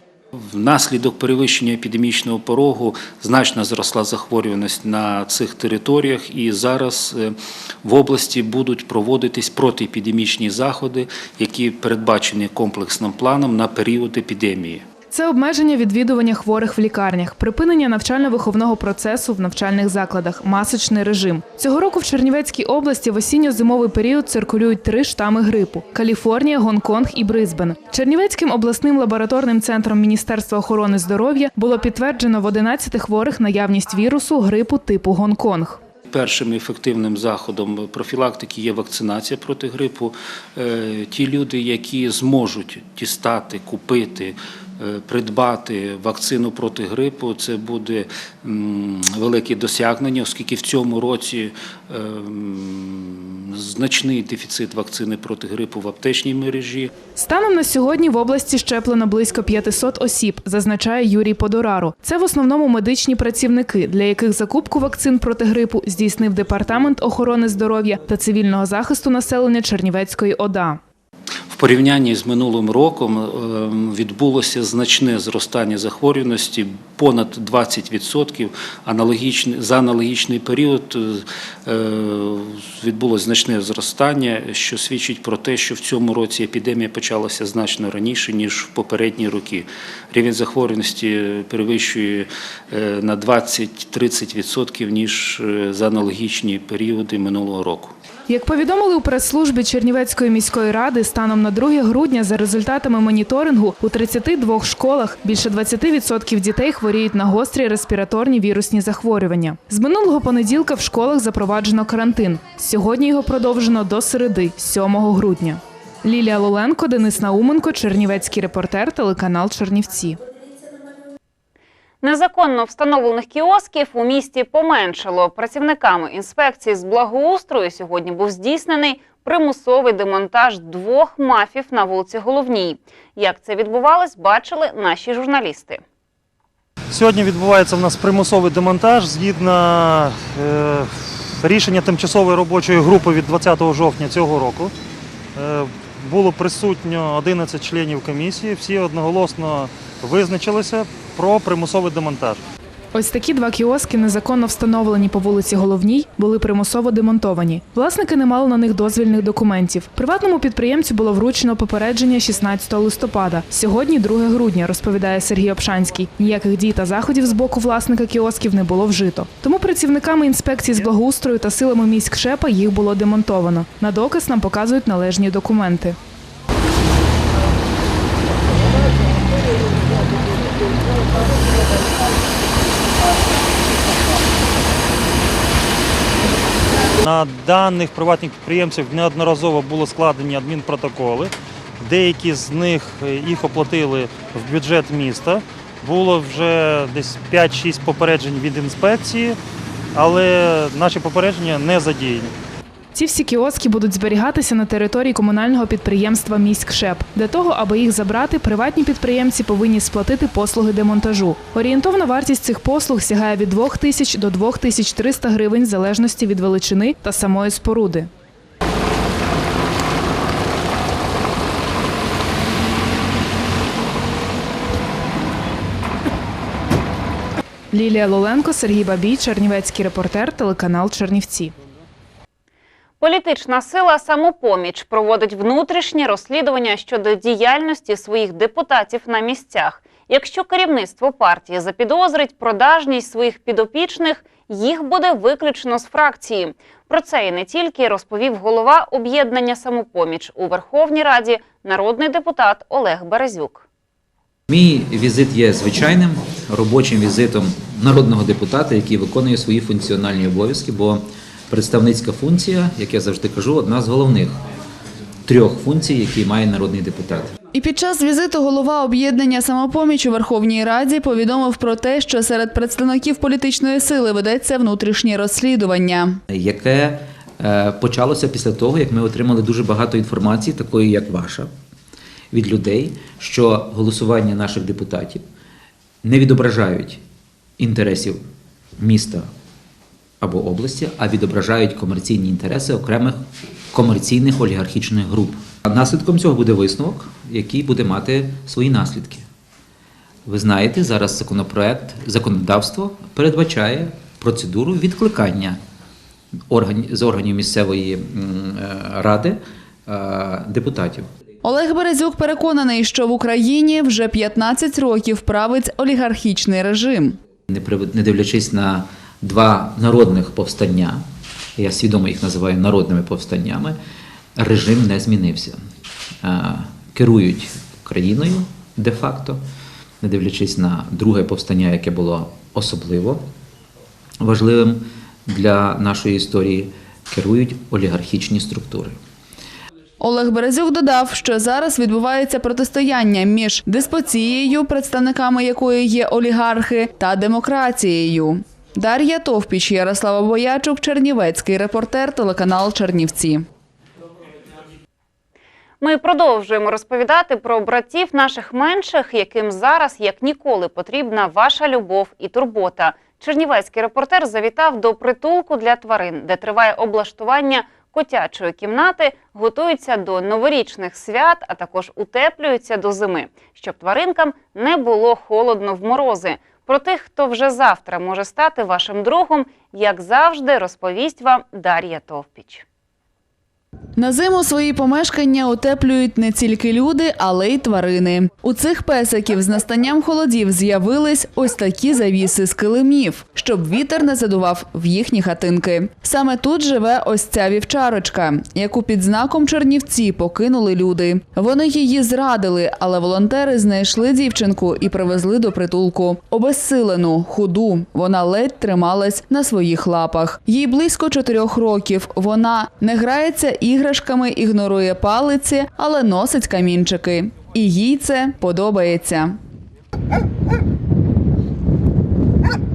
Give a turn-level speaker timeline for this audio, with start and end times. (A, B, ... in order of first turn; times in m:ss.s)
0:00.5-0:14.8 A
0:15.1-0:35.8 B
0:36.1-0:56.9 A
0:57.1-1:10.8 B
1:11.5-1:37.9 A
1:38.3-2:00.2 B
2:02.0-2:15.8 C
2:16.9-2:24.7 D
2:25.4-2:32.4 D
2:32.9-2:56.0 B
3:07.0-3:19.4 D
3:19.9-3:22.3 D
3:22.9-3:38.1 B
3:47.7-3:51.5 B
3:53.0-4:13.6 C
4:14.5-4:24.4 E
4:25.2-4:27.3 E
4:27.5-4:36.2 F
4:36.3-4:41.5 E
4:42.3-4:45.2 E
4:46.0-4:47.0 E
4:47.6-4:48.2 E
4:48.8-4:49.3 E
4:50.2-4:59.2 E
5:00.2-5:05.6 E
5:06.5-5:11.1 E
5:11.4-5:17.2 F
5:17.5-5:21.0 E
5:21.6-5:23.8 E
5:24.4-5:25.6 E
5:26.2-5:29.4 E
5:30.0-5:33.2 E
5:34.2-5:39.0 E
5:40.0-5:53.4 F
5:55.8-6:22.6 C
6:24.0-6:59.3 F